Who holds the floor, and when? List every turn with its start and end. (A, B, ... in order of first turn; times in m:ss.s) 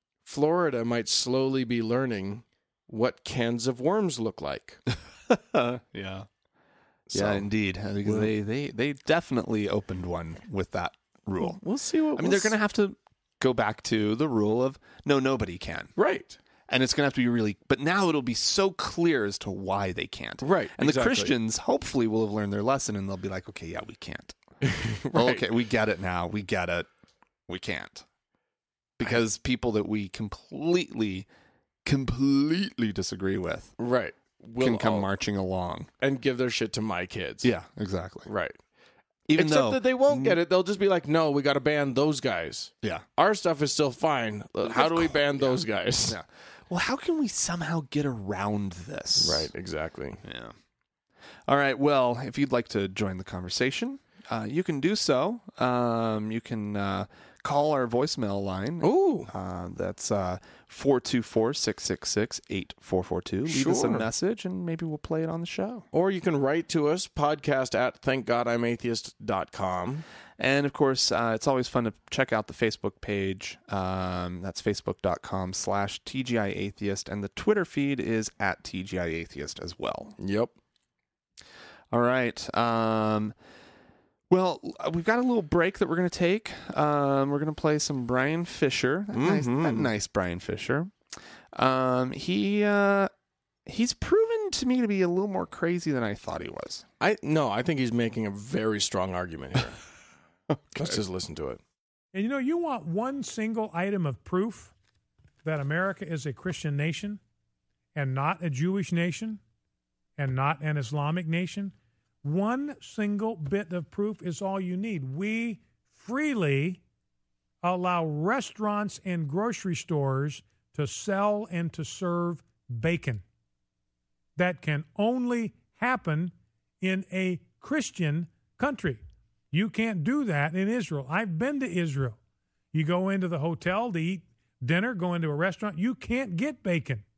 0:00.2-0:04.8 A
0:05.3-0:06.3 B
0:07.1-0:07.4 A
0:07.1-0:11.6 B
0:08.0-0:08.3 A
0:11.4-0:12.6 A
0:12.2-0:15.9 B
0:16.0-0:16.4 A
0:16.7-0:24.4 B
0:20.4-0:21.3 A
0:24.6-0:25.5 A
0:25.1-0:26.9 B
0:27.5-0:28.0 B
0:29.0-0:31.3 B
0:31.8-0:33.8 B
0:33.8-0:35.1 A
0:34.6-0:35.9 B
0:36.0-0:37.5 A
0:37.4-0:38.3 B
0:38.2-0:38.6 A
0:39.3-0:40.4 B
0:39.4-0:46.2 A
0:44.6-0:49.5 B
0:49.2-0:50.2 A
0:50.2-0:50.5 B
0:51.5-1:05.8 B
0:58.8-0:59.3 A
1:03.5-1:04.1 A
1:05.9-1:10.0 A
1:10.4-1:20.2 B
1:20.2-1:20.5 A
1:21.9-1:23.3 B
1:24.3-1:30.9 B
1:29.1-1:29.9 A
1:31.5-1:33.1 B
1:33.6-1:36.8 B
1:37.0-1:39.8 A
1:40.5-1:41.0 B
1:40.7-1:41.6 A
1:42.1-1:44.7 C
1:45.4-1:47.2 C
1:47.9-1:49.4 C
1:50.2-1:51.7 C
1:52.2-1:56.8 C
1:57.6-2:03.2 C
2:04.4-2:09.0 C
2:09.5-2:12.2 C
2:12.7-2:17.0 C